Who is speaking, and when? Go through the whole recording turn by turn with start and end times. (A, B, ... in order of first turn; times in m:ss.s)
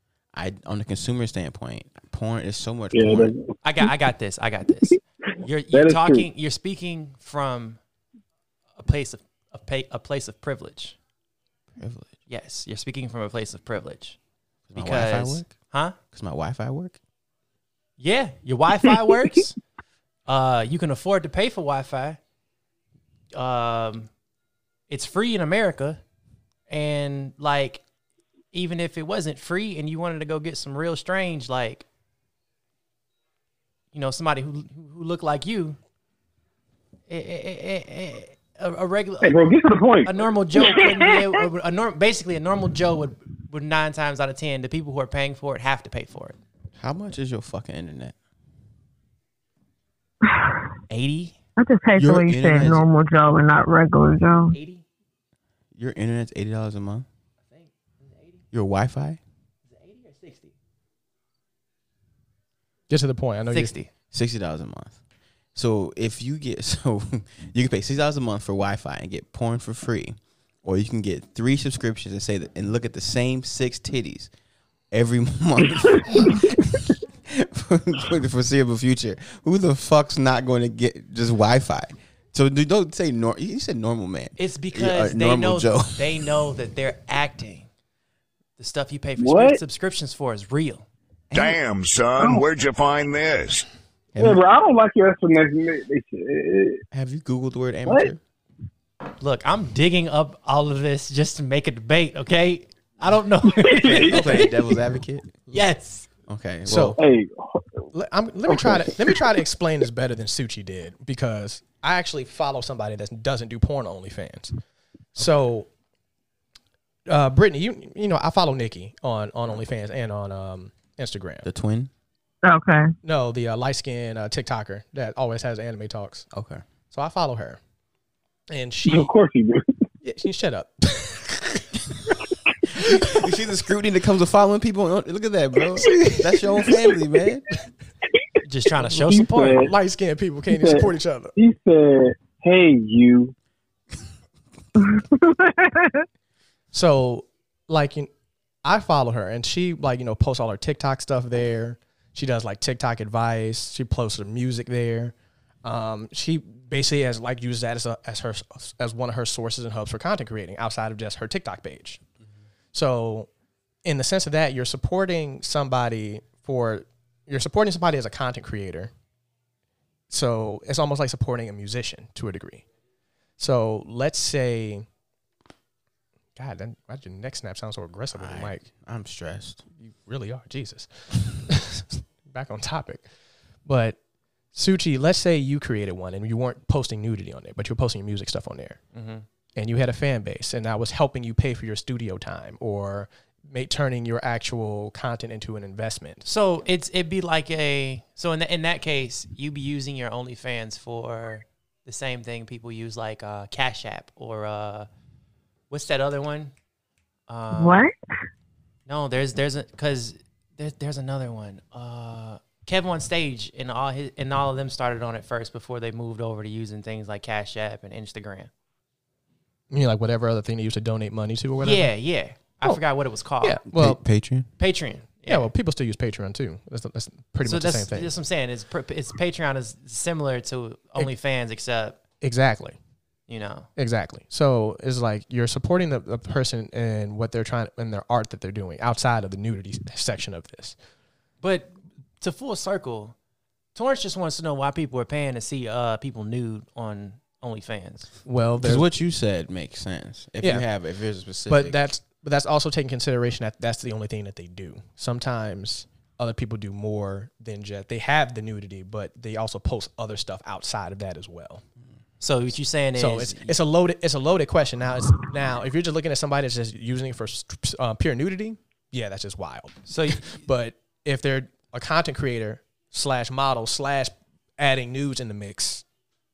0:00.3-0:03.4 A
0:02.9-0:03.5 B
0:03.6-0:07.8 C
0:05.7-0:06.3 B
0:08.8-0:11.0 C
0:11.8-0:12.1 A
0:12.3-0:14.2 C
0:14.7-0:15.5 A
0:14.8-0:16.0 C
0:16.1-0:17.0 A
0:18.0-0:19.6 C
0:20.3-0:22.2 C
0:23.3-0:24.1 C
0:24.9-0:26.0 C
0:26.7-0:27.8 C
0:28.5-0:31.8 C
0:33.9-0:35.8 C
0:37.1-0:39.5 C
0:39.2-0:40.1 B
0:40.0-0:46.4 C
0:40.6-0:41.1 D
0:46.8-0:48.1 A
0:50.3-0:50.6 D
0:50.9-0:51.4 C
0:51.6-0:54.6 D
0:52.0-0:52.8 A
0:54.5-0:54.8 C
0:55.8-0:57.0 A
0:57.5-0:58.4 C
0:58.5-0:59.2 A
0:59.7-1:00.5 C
1:02.9-1:03.7 E
1:03.5-1:03.9 C
1:04.1-1:05.0 A
1:05.5-1:14.3 A
1:14.9-1:26.2 A
1:24.4-1:27.7 C
1:28.6-1:30.8 C
1:29.2-1:29.6 B
1:31.3-1:33.7 F
1:34.1-1:34.4 A
1:34.2-1:36.8 B
1:36.9-1:38.2 A
1:39.2-1:44.5 C
1:43.6-1:44.3 B
1:43.7-1:45.5 A
1:45.5-1:46.1 C
1:46.3-1:47.0 A
1:46.6-1:47.0 E
1:47.0-1:47.8 B
1:47.9-1:54.5 E
1:48.5-1:49.2 B
1:55.2-1:55.7 E
1:57.1-2:01.4 E
2:01.4-2:01.9 A
2:02.4-2:02.9 D
2:03.0-2:06.3 E
2:06.3-2:06.6 A
2:06.9-2:07.6 E
2:08.5-2:09.1 E
2:08.9-2:09.8 B
2:10.0-2:12.1 E
2:12.7-2:13.0 E
2:13.1-2:17.5 A
2:15.8-2:16.2 E
2:18.4-2:19.6 C
2:18.8-2:19.7 B
2:19.6-2:21.3 E
2:20.5-2:23.3 B
2:24.8-2:26.0 D
2:26.7-2:28.1 E
2:28.6-2:42.0 E
2:42.7-2:43.3 E
2:43.8-2:48.9 E
2:50.1-2:52.6 E
2:53.4-2:54.8 E
2:56.4-2:58.6 E
2:58.1-2:59.6 A
2:59.8-3:03.0 E
3:03.6-3:04.0 E
3:04.5-3:08.8 E
3:08.9-3:09.2 C
3:09.6-3:16.2 E
3:16.2-3:24.9 C
3:25.7-3:26.5 C
3:27.3-3:27.8 C
3:27.5-3:27.9 D
3:28.9-3:38.5 C
3:39.7-3:41.9 E
3:41.6-3:43.6 C
3:43.4-3:44.0 E
3:43.7-3:44.5 A
3:44.6-3:45.5 C
3:45.3-3:48.1 E
3:47.4-3:52.0 C
3:52.2-3:52.8 E
3:53.3-3:53.7 C
3:53.8-4:00.8 E
4:01.4-4:03.1 C
4:03.7-4:08.1 C
4:08.2-4:08.8 E
4:08.6-4:11.8 A
4:10.4-4:10.6 E
4:11.5-4:21.6 E
4:22.2-4:23.5 C
4:23.0-4:35.8 E
4:29.9-4:30.4 C